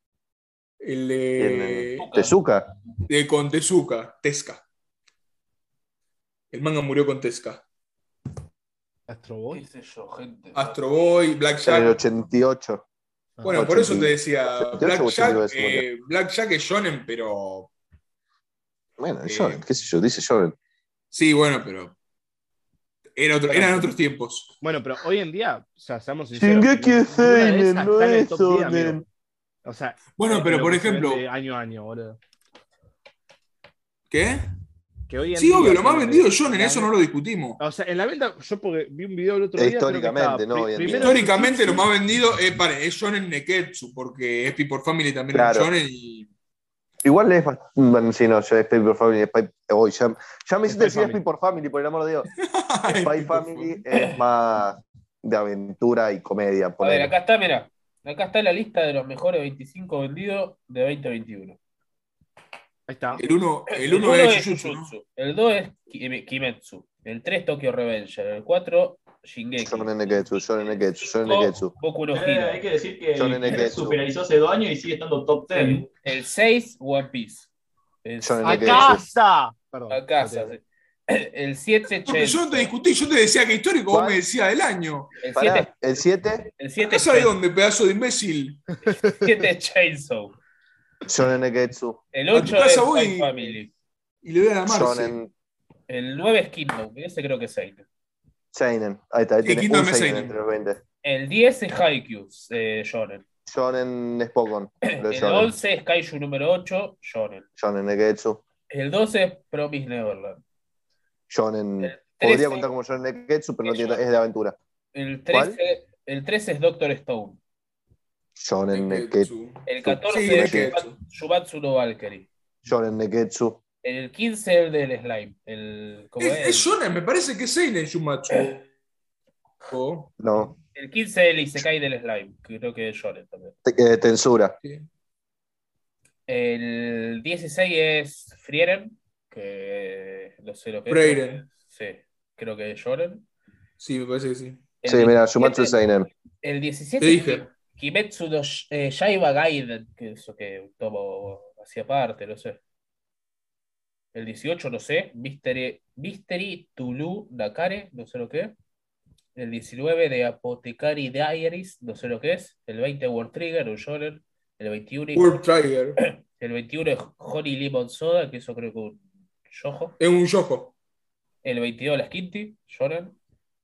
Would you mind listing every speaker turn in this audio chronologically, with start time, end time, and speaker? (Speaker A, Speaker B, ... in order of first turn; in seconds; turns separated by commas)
Speaker A: 0.8-2.1, Speaker B: 1.4-2.7, Speaker C: 2.0-2.3, Speaker A: 3.1-4.6, Speaker A: 6.5-7.6, Speaker D: 9.1-9.6, Speaker C: 9.5-10.8, Speaker A: 10.6-12.0, Speaker B: 11.7-12.8, Speaker D: 13.4-13.6, Speaker A: 13.4-17.7, Speaker B: 13.5-15.9, Speaker B: 19.0-20.6, Speaker A: 19.2-19.6, Speaker A: 21.1-21.9, Speaker A: 23.2-24.5, Speaker D: 23.5-23.9, Speaker D: 24.6-29.1, Speaker B: 26.3-29.0, Speaker D: 29.6-32.2, Speaker A: 30.2-31.2, Speaker A: 34.1-34.5, Speaker D: 35.1-36.9, Speaker A: 35.4-37.6, Speaker D: 37.6-41.9, Speaker B: 39.6-41.2, Speaker A: 40.9-46.3, Speaker B: 45.3-45.7, Speaker B: 47.0-52.3, Speaker D: 50.7-51.2, Speaker A: 52.4-53.8, Speaker B: 52.9-57.1, Speaker C: 56.8-61.6, Speaker D: 62.9-63.2, Speaker A: 63.1-64.9, Speaker C: 63.7-70.3, Speaker B: 69.6-71.7, Speaker C: 71.0-72.6, Speaker E: 72.1-75.9, Speaker B: 73.2-74.0, Speaker C: 75.6-77.5, Speaker C: 78.0-79.0, Speaker B: 78.2-79.0, Speaker D: 78.5-80.5, Speaker C: 79.9-82.7, Speaker A: 82.1-85.1, Speaker B: 83.9-84.2, Speaker C: 85.2-85.7, Speaker B: 85.3-86.5, Speaker C: 86.6-87.3, Speaker A: 86.8-88.6, Speaker C: 88.9-90.4, Speaker B: 91.1-92.0, Speaker C: 92.1-93.7, Speaker A: 92.3-93.5, Speaker A: 94.2-95.2, Speaker B: 94.7-95.3, Speaker C: 95.9-97.8, Speaker B: 98.5-100.8, Speaker A: 99.4-100.3, Speaker C: 101.0-103.2, Speaker B: 103.5-105.5, Speaker C: 104.9-107.5, Speaker B: 107.6-108.4, Speaker C: 108.7-110.4, Speaker B: 111.3-114.6, Speaker C: 111.8-112.7, Speaker C: 113.6-114.0, Speaker C: 114.9-117.4, Speaker B: 115.3-115.6, Speaker B: 118.4-119.3, Speaker A: 118.7-121.0, Speaker C: 119.7-122.3, Speaker B: 119.8-120.7, Speaker B: 122.7-123.6, Speaker C: 123.8-126.7, Speaker A: 126.2-128.7, Speaker A: 129.7-130.2, Speaker B: 130.2-130.5, Speaker C: 130.8-133.6, Speaker B: 133.7-134.6, Speaker C: 136.3-143.2, Speaker A: 140.9-141.4, Speaker A: 143.8-144.6, Speaker C: 144.8-145.8, Speaker B: 144.8-146.1, Speaker C: 146.4-152.6, Speaker A: 147.0-147.4, Speaker C: 154.1-158.6, Speaker C: 159.3-165.4, Speaker A: 165.2-166.0, Speaker C: 166.0-170.0, Speaker A: 170.0-170.7, Speaker C: 171.4-173.2